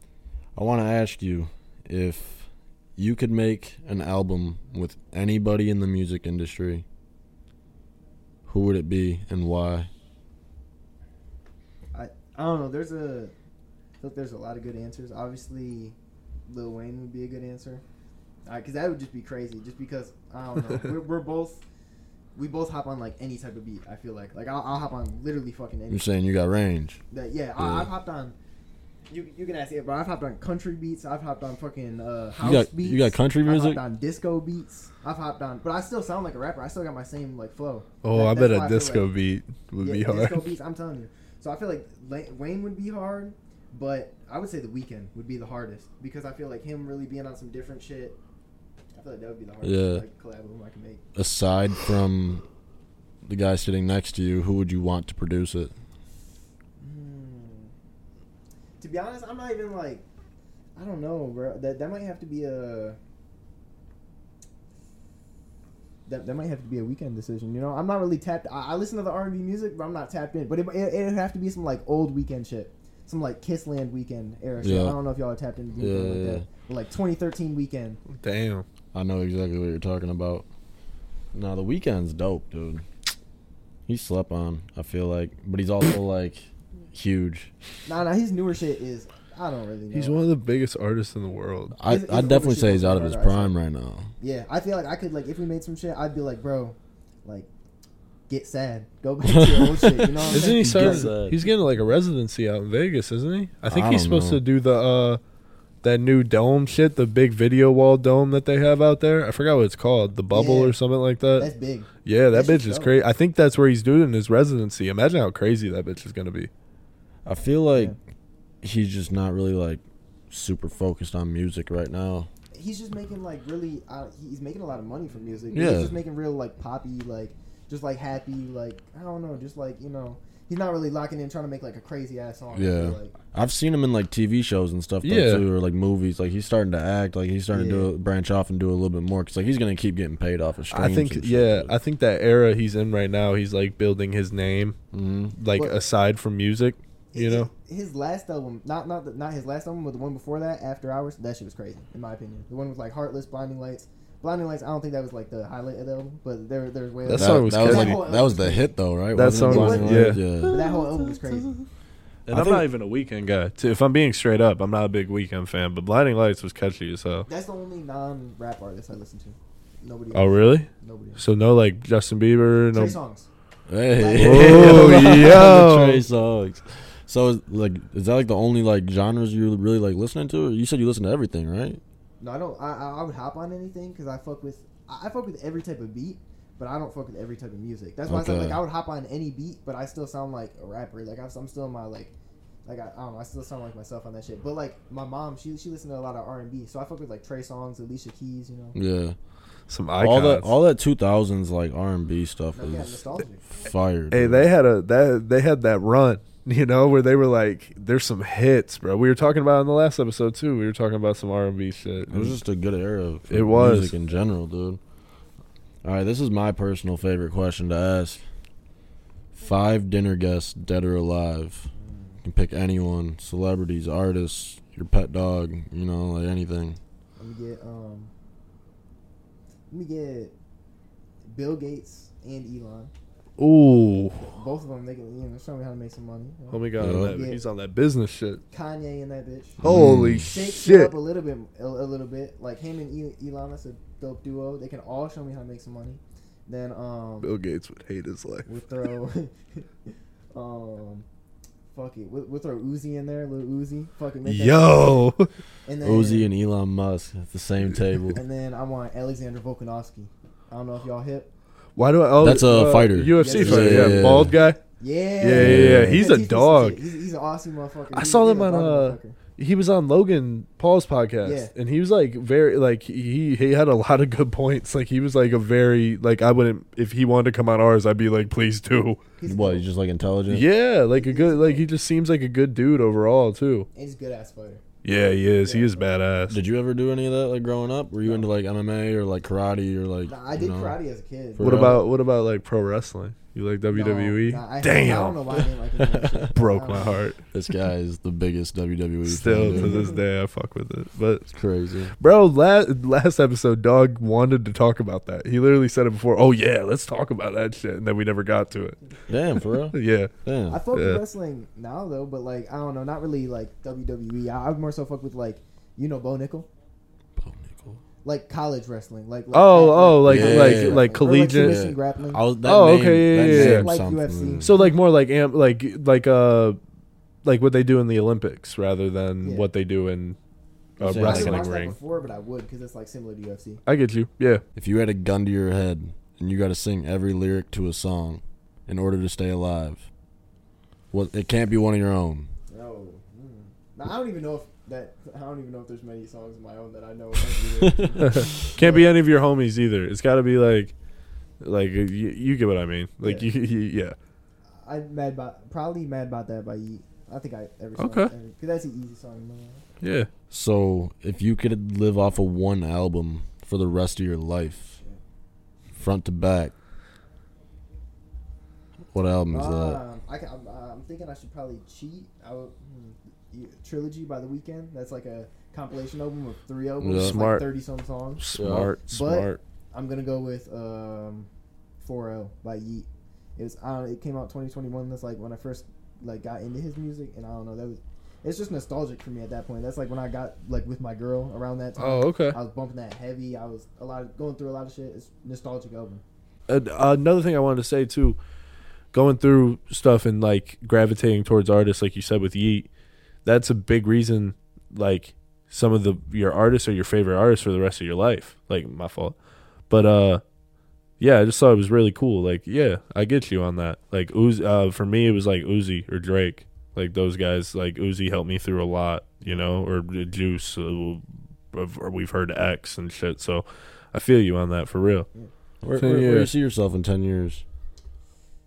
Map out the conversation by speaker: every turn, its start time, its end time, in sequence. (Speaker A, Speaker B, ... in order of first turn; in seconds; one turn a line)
Speaker A: 0.6-6.8
Speaker A: 8.5-9.9
Speaker B: 11.9-13.3
Speaker B: 14.0-16.0
Speaker B: 16.5-17.8
Speaker B: 18.5-21.6
Speaker B: 22.3-26.1
Speaker A: 25.9-27.0
Speaker B: 27.1-28.4
Speaker A: 27.6-27.9
Speaker B: 29.1-39.1
Speaker A: 32.4-33.8
Speaker C: 38.0-40.4
Speaker B: 39.8-48.2
Speaker B: 48.9-51.0
Speaker A: 49.6-50.0
Speaker A: 51.1-52.4
Speaker A: 53.2-55.7
Speaker B: 56.8-57.7
Speaker B: 58.8-60.0
Speaker B: 60.8-63.0
Speaker B: 66.1-78.0
Speaker A: 74.6-75.0
Speaker A: 75.8-76.5
Speaker C: 78.2-78.7
Speaker A: 78.9-80.5
Speaker A: 81.3-82.8
Speaker A: 83.9-87.5
Speaker B: 87.8-90.2
Speaker C: 89.9-91.8
Speaker A: 91.8-94.1
Speaker B: 91.9-93.5
Speaker B: 94.2-97.5
Speaker B: 98.3-101.1
Speaker A: 99.2-101.4
Speaker C: 100.3-105.2
Speaker A: 103.7-104.4
Speaker C: 105.8-111.5
Speaker B: 110.3-110.8
Speaker B: 111.3-113.0
Speaker C: 112.1-116.5
Speaker A: 117.3-118.0
Speaker B: 117.7-118.0
Speaker A: 118.6-122.3
Speaker B: 122.5-133.1
Speaker A: 125.5-126.0
Speaker A: 132.5-141.8
Speaker C: 135.0-135.5
Speaker B: 137.5-137.9
Speaker C: 140.7-144.8
Speaker A: 144.9-145.3
Speaker C: 145.4-147.5
Speaker B: 147.1-158.7
Speaker C: 157.1-158.0
Speaker A: 157.2-160.7
Speaker C: 159.1-161.6
Speaker B: 159.3-161.6
Speaker C: 162.3-167.3
Speaker A: 162.3-162.7
Speaker B: 167.3-171.2
Speaker C: 170.1-173.0
Speaker B: 172.7-173.3
Speaker A: 173.7-181.8
Speaker B: 173.9-175.3
Speaker C: 174.2-176.0
Speaker B: 182.2-192.1
Speaker A: 188.1-188.6
Speaker B: 192.7-198.8
Speaker A: 198.8-199.2
Speaker C: 199.7-200.5
Speaker A: 200.0-204.5
Speaker B: 202.5-203.5
Speaker C: 204.1-212.4
Speaker A: 212.1-214.8
Speaker C: 213.3-214.0
Speaker A: 215.8-218.2
Speaker A: 219.3-221.7
Speaker B: 221.8-222.2
Speaker A: 222.2-226.8
Speaker B: 227.2-228.1
Speaker B: 229.7-230.3
Speaker B: 231.3-232.9
Speaker C: 233.4-234.4
Speaker B: 234.2-237.4
Speaker C: 236.5-238.4
Speaker A: 236.8-237.2
Speaker B: 238.5-239.6
Speaker A: 239.6-240.3
Speaker C: 239.6-240.9
Speaker B: 240.2-247.3
Speaker C: 247.2-248.5
Speaker B: 248.5-249.7
Speaker B: 250.3-251.1
Speaker B: 251.7-255.1
Speaker C: 254.2-255.3
Speaker B: 255.7-256.3
Speaker A: 255.8-258.2
Speaker B: 258.1-261.3
Speaker C: 261.8-264.6
Speaker A: 262.2-264.4
Speaker B: 263.1-269.2
Speaker C: 265.2-266.8
Speaker A: 265.3-266.1
Speaker C: 267.9-279.0
Speaker B: 271.2-271.5
Speaker B: 279.1-279.7
Speaker A: 279.2-280.4
Speaker C: 280.3-283.7
Speaker B: 280.9-281.7
Speaker B: 283.7-284.6
Speaker C: 284.8-286.4
Speaker B: 285.4-285.8
Speaker A: 286.3-290.8
Speaker B: 290.1-291.7
Speaker A: 291.4-291.8
Speaker C: 291.4-295.5
Speaker B: 293.7-296.9
Speaker C: 296.3-297.2
Speaker A: 297.3-299.9
Speaker C: 299.1-301.3
Speaker B: 299.5-300.0
Speaker A: 301.3-301.9
Speaker C: 302.0-308.8
Speaker A: 309.1-310.6
Speaker C: 309.7-310.1
Speaker B: 310.5-316.5
Speaker C: 310.7-311.0
Speaker A: 317.2-317.8
Speaker B: 318.0-322.2
Speaker C: 319.3-321.6
Speaker A: 320.1-324.6
Speaker C: 322.4-323.7
Speaker B: 323.2-324.7
Speaker C: 324.4-326.6
Speaker C: 327.2-330.2
Speaker B: 329.2-329.5
Speaker C: 330.8-331.8
Speaker A: 330.8-331.5
Speaker B: 330.9-333.6
Speaker C: 333.7-334.4
Speaker A: 334.6-339.9
Speaker A: 340.9-342.3
Speaker B: 342.5-348.9
Speaker A: 347.7-347.9
Speaker C: 348.0-350.8
Speaker C: 351.4-353.9
Speaker B: 353.0-353.3
Speaker B: 354.5-359.6
Speaker C: 357.8-358.1
Speaker C: 359.8-360.1
Speaker A: 360.3-364.8
Speaker A: 365.8-366.5
Speaker A: 368.9-369.8
Speaker B: 369.3-378.2
Speaker A: 376.8-377.2
Speaker C: 377.0-377.4
Speaker C: 378.2-379.4
Speaker A: 378.3-378.7
Speaker B: 378.9-381.3
Speaker B: 381.8-396.0
Speaker C: 391.8-392.4
Speaker C: 396.5-398.2
Speaker C: 398.9-402.7
Speaker C: 403.2-409.2
Speaker C: 409.7-410.2
Speaker C: 411.0-425.1
Speaker A: 425.6-427.4
Speaker C: 425.8-426.3